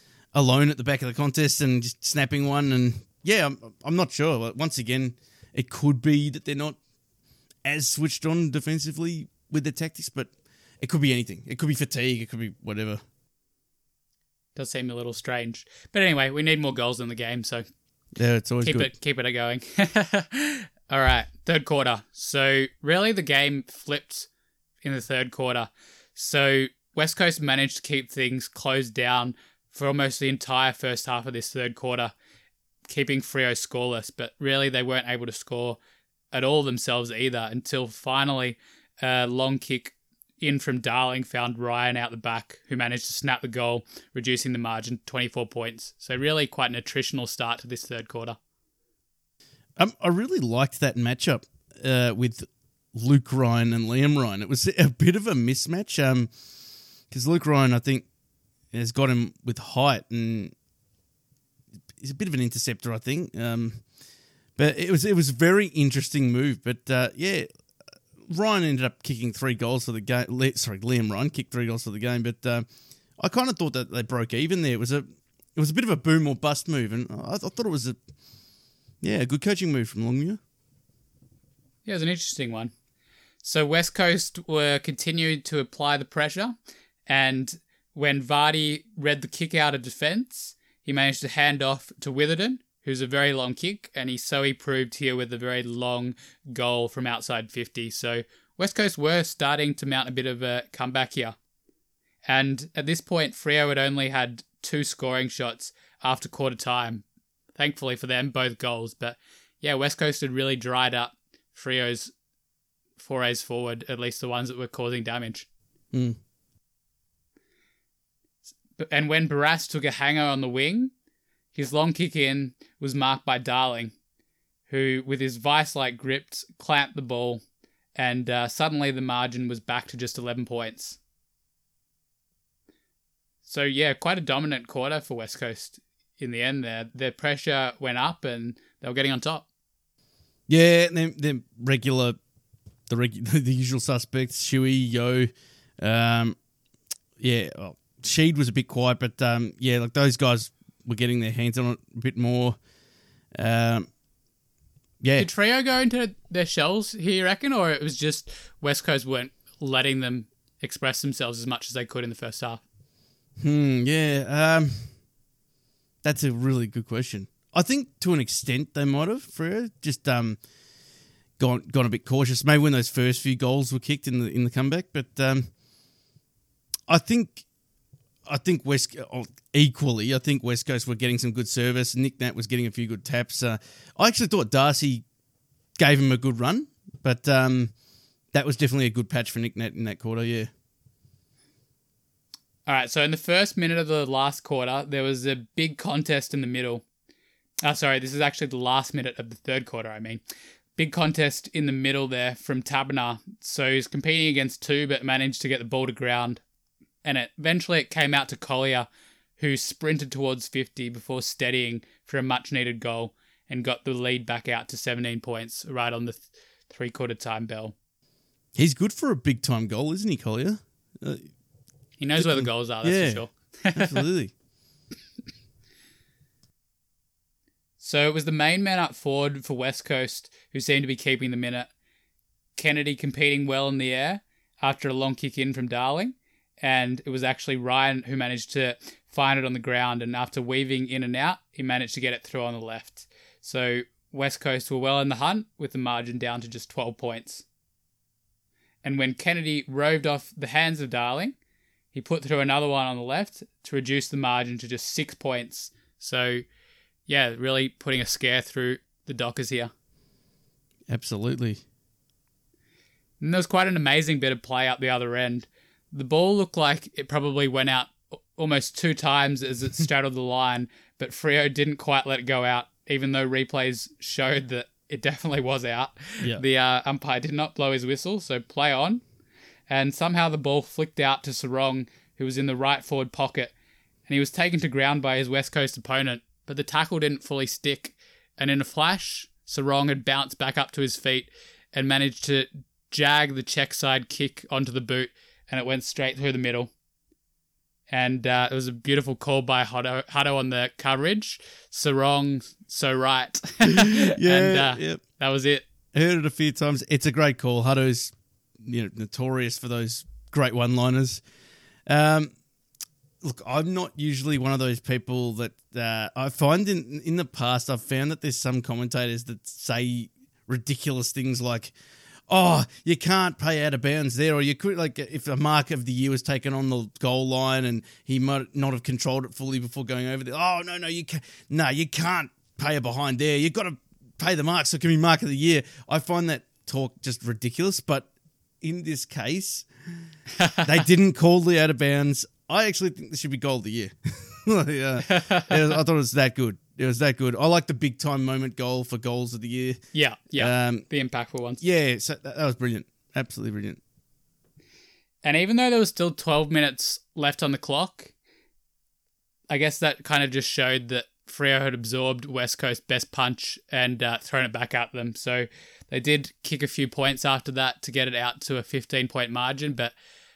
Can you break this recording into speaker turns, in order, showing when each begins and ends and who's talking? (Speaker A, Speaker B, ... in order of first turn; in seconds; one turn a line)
Speaker A: 0.3-6.8
Speaker A: 7.6-13.0
Speaker B: 14.6-17.6
Speaker A: 18.1-18.9
Speaker B: 18.6-24.3
Speaker B: 24.8-32.1
Speaker B: 32.9-35.8
Speaker B: 36.3-48.4
Speaker A: 49.8-56.3
Speaker A: 57.1-58.1
Speaker A: 58.7-60.5
Speaker A: 62.0-63.8
Speaker A: 64.6-67.5
Speaker A: 68.2-72.7
Speaker A: 73.2-75.0
Speaker A: 75.5-78.0
Speaker A: 79.0-80.4
Speaker B: 81.8-82.7
Speaker B: 83.4-86.5
Speaker B: 87.1-101.3
Speaker B: 102.3-107.0
Speaker B: 107.5-112.1
Speaker B: 113.0-115.5
Speaker A: 115.9-116.2
Speaker B: 118.8-120.9
Speaker B: 121.5-123.9
Speaker B: 124.7-127.4
Speaker B: 128.0-131.0
Speaker B: 133.4-139.4
Speaker A: 140.5-142.2
Speaker A: 142.9-146.4
Speaker A: 147.2-152.6
Speaker A: 153.3-153.9
Speaker A: 155.0-155.3
Speaker B: 155.2-162.6
Speaker A: 163.4-164.9
Speaker A: 166.0-170.4
Speaker A: 171.4-175.5
Speaker A: 176.9-177.4
Speaker A: 178.2-185.0
Speaker A: 185.8-187.7
Speaker A: 188.3-190.5
Speaker B: 192.7-196.8
Speaker B: 197.6-200.2
Speaker B: 200.8-206.4
Speaker B: 207.0-208.9
Speaker B: 209.4-217.7
Speaker A: 218.6-221.2
Speaker B: 222.0-223.9
Speaker A: 222.2-224.3
Speaker B: 227.8-231.7
Speaker B: 232.6-247.4
Speaker B: 248.8-251.3
Speaker B: 251.9-256.4
Speaker B: 257.1-259.7
Speaker A: 260.9-261.6
Speaker B: 263.2-279.0
Speaker B: 279.7-283.5
Speaker B: 284.1-296.7
Speaker B: 297.9-305.6
Speaker A: 303.7-305.0
Speaker A: 305.9-311.2
Speaker A: 311.9-312.3
Speaker A: 313.2-321.7
Speaker A: 322.3-338.1
Speaker A: 338.6-339.7
Speaker B: 340.4-340.7
Speaker A: 340.6-349.8
Speaker B: 345.1-345.6
Speaker B: 349.9-351.6
Speaker A: 350.4-350.9
Speaker A: 351.6-353.8
Speaker B: 355.2-358.1
Speaker B: 359.5-369.9